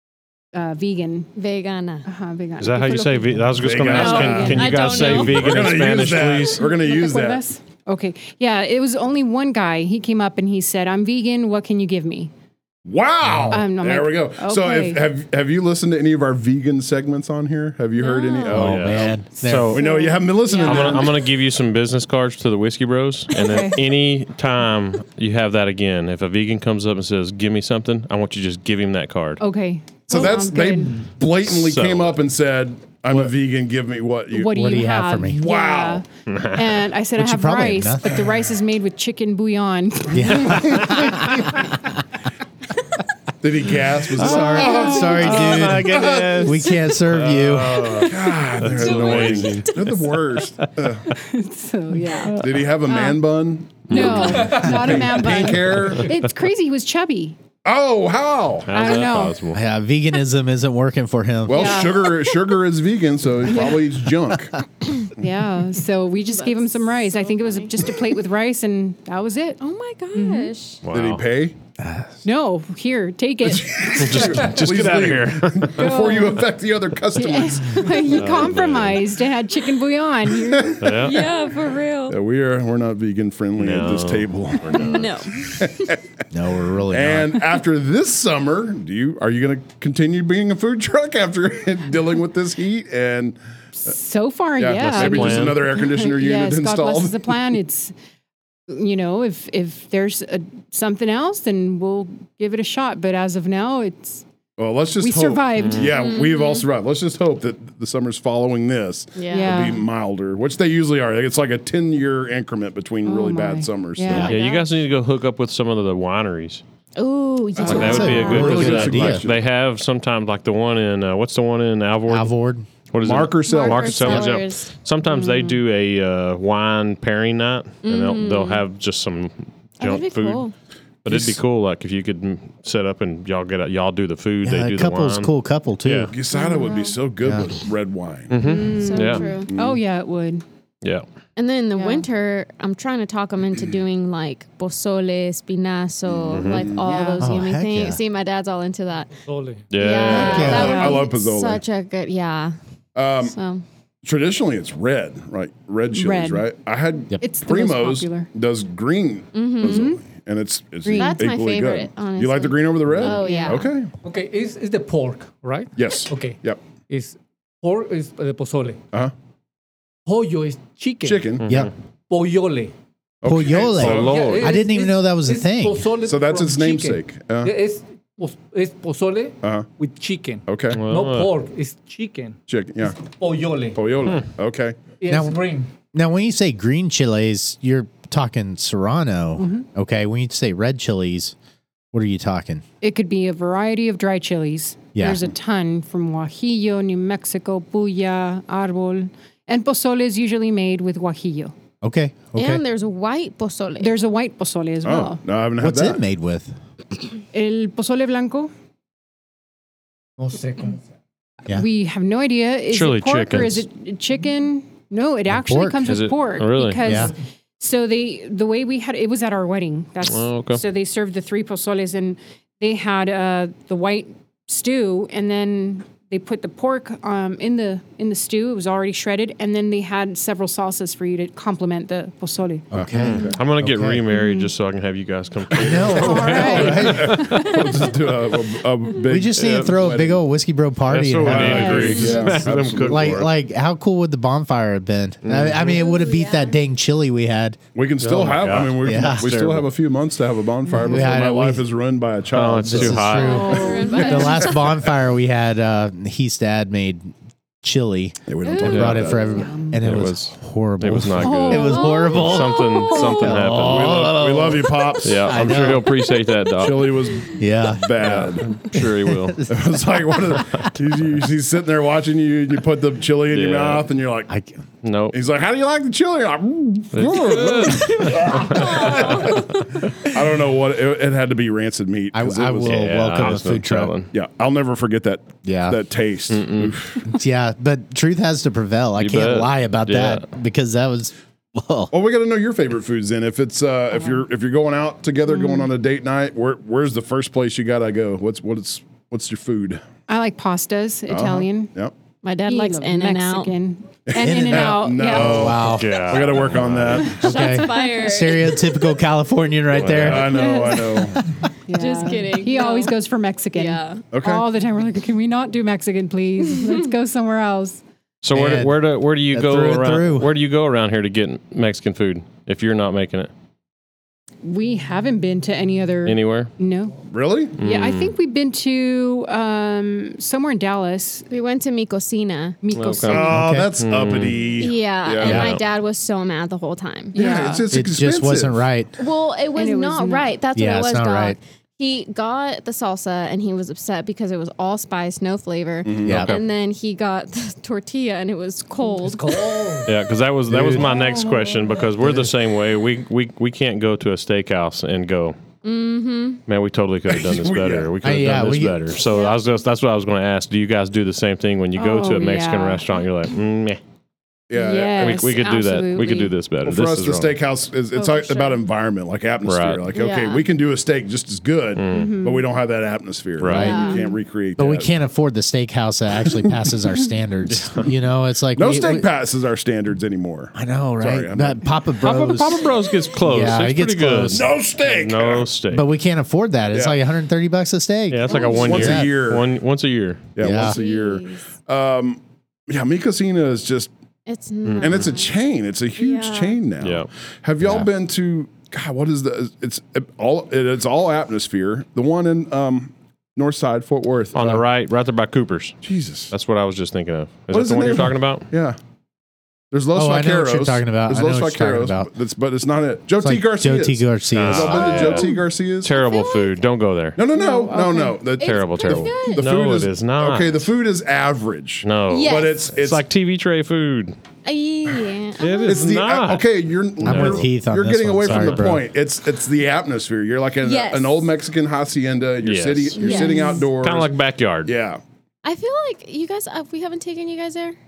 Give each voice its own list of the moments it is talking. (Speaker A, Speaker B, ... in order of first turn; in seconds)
Speaker A: 0.5-1.3, 2.0-5.2, 6.6-12.3, 13.5-15.0, 19.4-21.1, 23.3-23.8, 29.4-31.0, 34.3-41.5, 44.6-45.6, 51.1-53.2, 53.9-57.4, 58.7-59.4, 61.5-62.1, 63.5-63.9, 65.2-69.6, 70.1-70.5, 72.2-74.3, 75.8-76.4, 77.2-81.2, 93.8-97.9, 98.7-104.2, 105.0-105.9, 109.3-109.8, 113.1-114.3, 138.4-140.4, 141.8-142.1, 146.8-147.2, 150.4-151.1, 155.9-156.5, 157.2-158.3, 159.6-160.0, 160.8-161.2, 163.0-163.6, 189.4-189.7, 192.8-201.5, 203.8-205.2, 207.3-208.5, 211.5-232.7, 234.1-234.5, 235.9-237.5, 241.3-242.3, 253.2-254.4, 259.3-259.9, 261.2-262.1, 295.3-295.7, 300.1-301.7, 302.5-305.6, 310.3-311.1, 311.7-317.8, 324.4-327.0, 327.6-331.3, 332.6-333.4, 337.1-337.6, 339.6-340.4, 361.8-362.8, 364.5-366.3, 371.9-372.4, 373.6-374.1, 417.4-418.1, 433.1-433.6
Speaker B: 1.4-2.1, 3.9-5.8, 18.1-18.5, 47.9-49.9, 66.3-67.8, 69.6-70.8, 77.4-78.5, 81.0-82.2, 84.8-86.0, 106.0-106.7, 109.2-109.8, 114.1-114.7, 117.0-118.9, 123.5-125.5, 127.8-128.6, 129.8-130.5, 136.3-136.9, 138.8-139.5, 141.4-149.1, 149.8-152.6, 153.2-153.6, 159.3-159.9, 160.9-163.7, 202.3-204.0, 245.7-246.6, 253.1-254.7, 258.5-259.4, 261.4-263.1, 278.0-279.8, 302.2-303.6, 307.0-308.8, 311.7-312.9, 313.6-314.0, 331.3-332.6, 334.6-337.4, 339.0-349.7, 355.6-356.4, 359.1-359.4, 367.9-368.6, 369.9-370.5, 373.6-374.1, 388.3-388.8, 390.6-391.5, 394.3-395.4, 396.0-396.6, 414.8-415.3, 415.9-416.6, 417.3-419.4, 422.1-422.6, 424.4-425.9, 430.6-431.3, 433.0-433.6, 435.4-437.8
Speaker C: 2.6-6.7, 18.6-19.8, 20.5-29.4, 31.4-32.2, 36.3-36.6, 44.2-50.2, 53.9-54.7, 58.7-59.6, 70.8-71.2, 73.9-76.2, 78.1-79.0, 80.8-81.2, 83.6-85.1, 94.8-95.9, 105.6-105.9, 114.3-116.6, 117.6-122.3, 122.9-130.4, 131.0-135.3, 135.8-136.1, 138.3-139.3, 146.3-146.7, 149.7-150.7, 171.4-171.7, 173.7-174.6, 180.7-181.3, 212.7-213.6, 215.9-217.1, 220.1-220.6, 233.0-237.8, 239.4-239.7, 240.9-243.3, 245.2-245.7, 248.0-249.7, 252.3-253.6, 258.6-259.1, 259.7-264.2, 265.0-267.0, 268.0-269.4, 273.3-273.9, 274.8-275.2, 276.9-279.4, 282.6-284.1, 286.3-286.8, 289.0-290.3, 305.6-307.2, 309.7-310.4, 318.2-323.3, 326.1-326.5, 327.6-328.1, 332.7-334.5, 335.2-335.6, 346.1-346.4, 349.9-355.4, 356.5-363.8, 365.0-367.4, 369.4-369.9, 371.8-372.2, 373.4-373.8, 377.5-377.9, 382.0-385.9, 388.1-390.3, 394.6-395.1, 396.8-397.1, 404.3-405.8, 406.3-408.5, 414.3-417.2, 418.4-420.7, 421.8-424.1, 425.4-426.4, 427.0-427.5, 428.2-428.7, 432.4-434.7
Speaker D: 3.6-7.4, 12.8-19.2, 19.7-21.2, 30.1-34.6, 35.3-36.0, 43.4-46.5, 48.0-51.1, 52.3-56.1, 57.6-58.7, 61.5-64.6, 70.9-71.5, 73.5-77.9, 80.4-80.9, 82.1-86.0, 86.9-93.4, 94.6-97.4, 104.6-114.3, 117.6-119.4, 123.0-124.2, 131.1-131.4, 136.1-138.3, 139.5-139.8, 146.1-146.9, 150.1-151.6, 152.9-153.4, 154.0-163.9, 165.8-166.6, 171.0-171.6, 173.2-174.2, 176.0-177.5, 179.4-179.7, 180.5-180.8, 182.5-183.0, 183.8-184.8, 204.8-206.0, 232.7-233.4, 235.8-240.2, 241.2-243.2, 247.8-253.1, 258.3-259.4, 263.5-265.9, 266.6-268.5, 269.5-274.3, 275.1-279.5, 280.0-283.4, 284.1-287.1, 291.9-299.8, 301.1-301.9, 304.1-307.2, 309.9-311.2, 314.1-314.4, 327.1-327.6, 333.1-335.5, 337.1-338.7, 345.9-346.2, 357.1-357.9, 364.5-365.1, 366.6-374.9, 378.6-381.7, 384.3-385.5, 388.3-389.5, 390.4-393.9, 394.8-404.6, 405.8-406.3, 407.5-408.8, 409.7-415.9, 417.2-423.0, 425.7-434.1, 434.7-435.0
Speaker E: 13.2-13.6, 18.5-19.8, 34.5-35.4, 37.2-38.3, 40.1-42.0, 44.1-48.0, 59.5-61.9, 71.8-72.1, 86.3-87.4, 117.7-119.2, 122.1-122.7, 134.4-136.1, 147.2-148.0, 150.2-150.8, 171.5-171.7, 173.2-175.9, 185.1-185.4, 185.9-191.3, 191.9-192.6, 194.9-195.2, 201.8-202.6, 205.6-206.5, 215.3-216.0, 216.8-217.1, 232.7-234.0, 235.5-237.4, 238.9-247.6, 248.6-249.4, 250.7-251.7, 252.6-257.1, 257.6-265.9, 267.3-268.2, 268.7-270.7, 274.3-274.5, 282.1-283.9, 285.4-285.8, 287.1-291.9, 304.2-311.4, 318.3-318.8, 319.3-320.3, 333.1-333.7, 337.7-338.9, 340.6-341.4, 346.1-346.4, 350.5-351.0, 352.0-352.4, 358.0-358.9, 373.4-373.9, 374.6-379.1, 380.6-384.5, 385.7-389.1, 390.4-390.8, 409.9-412.1, 413.2-414.8, 427.0-428.8
Speaker F: 54.4-54.7, 149.3-149.8, 164.0-168.8, 170.1-171.4, 172.1-172.7, 173.9-183.9, 185.0-185.7, 210.2-210.8, 348.9-349.9, 350.8-351.8